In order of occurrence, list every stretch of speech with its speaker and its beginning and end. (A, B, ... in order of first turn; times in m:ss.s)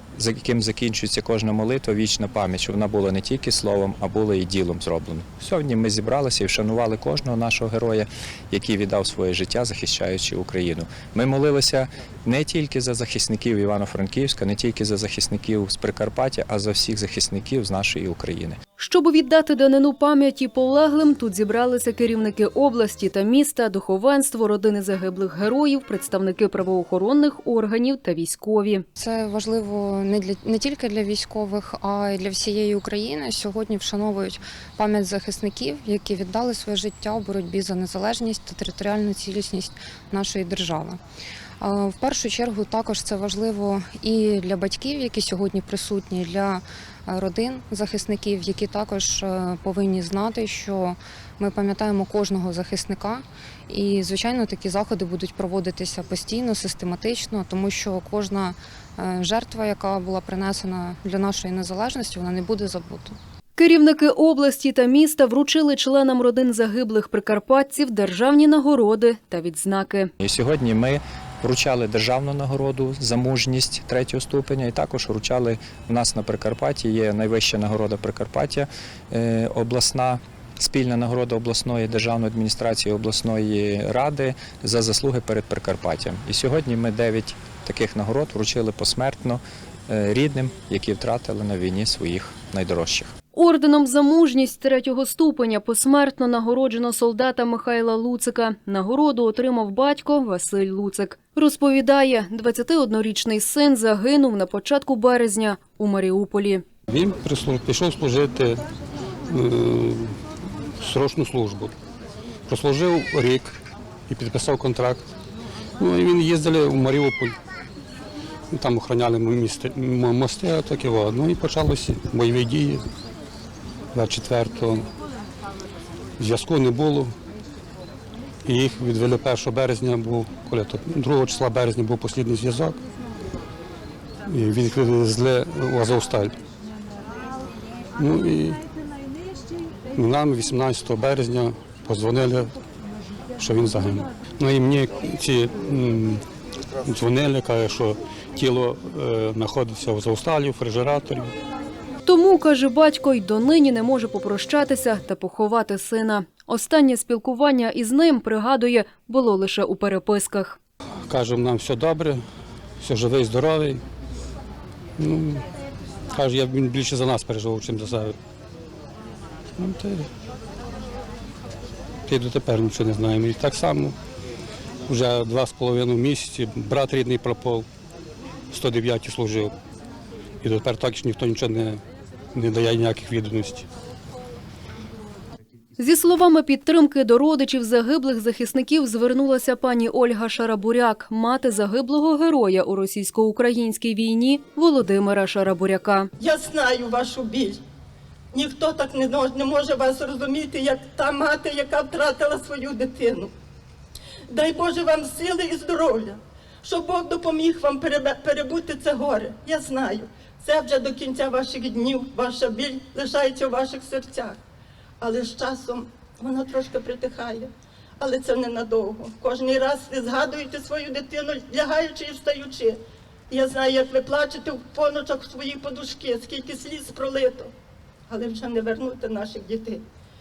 0:00.2-0:18.6 A
0:18.8-0:28.8 B
0:29.0-0:41.0 C
0:41.6-1:03.2 C
1:03.6-1:10.1 B
1:10.2-1:33.1 A
1:33.3-1:46.6 B
1:46.9-1:48.6 D
1:49.3-1:50.2 D
1:50.8-1:51.8 D
1:52.5-1:55.1 D
1:55.8-1:57.4 D
1:58.5-2:02.9 D
2:03.9-2:04.9 D
2:06.2-2:07.1 D
2:08.4-2:12.8 D
2:14.3-2:16.4 D
2:18.0-2:18.6 D
2:19.9-2:22.6 D
2:23.4-2:26.2 D
2:26.8-2:31.3 D
2:32.0-2:40.6 B
2:41.1-2:42.2 D
2:42.8-2:43.8 D
2:45.0-2:45.5 D
2:46.1-2:48.2 D
2:49.6-2:50.1 D
2:52.1-2:54.0 D
2:54.9-2:57.7 D
2:58.5-2:59.6 D
3:00.4-3:01.8 D
3:02.3-3:03.7 D
3:05.8-3:16.1 B
3:16.2-3:17.6 E
3:18.3-3:23.3 E
3:24.3-3:34.4 E
3:35.0-3:42.8 E
3:43.3-3:47.5 E
3:48.1-3:49.8 E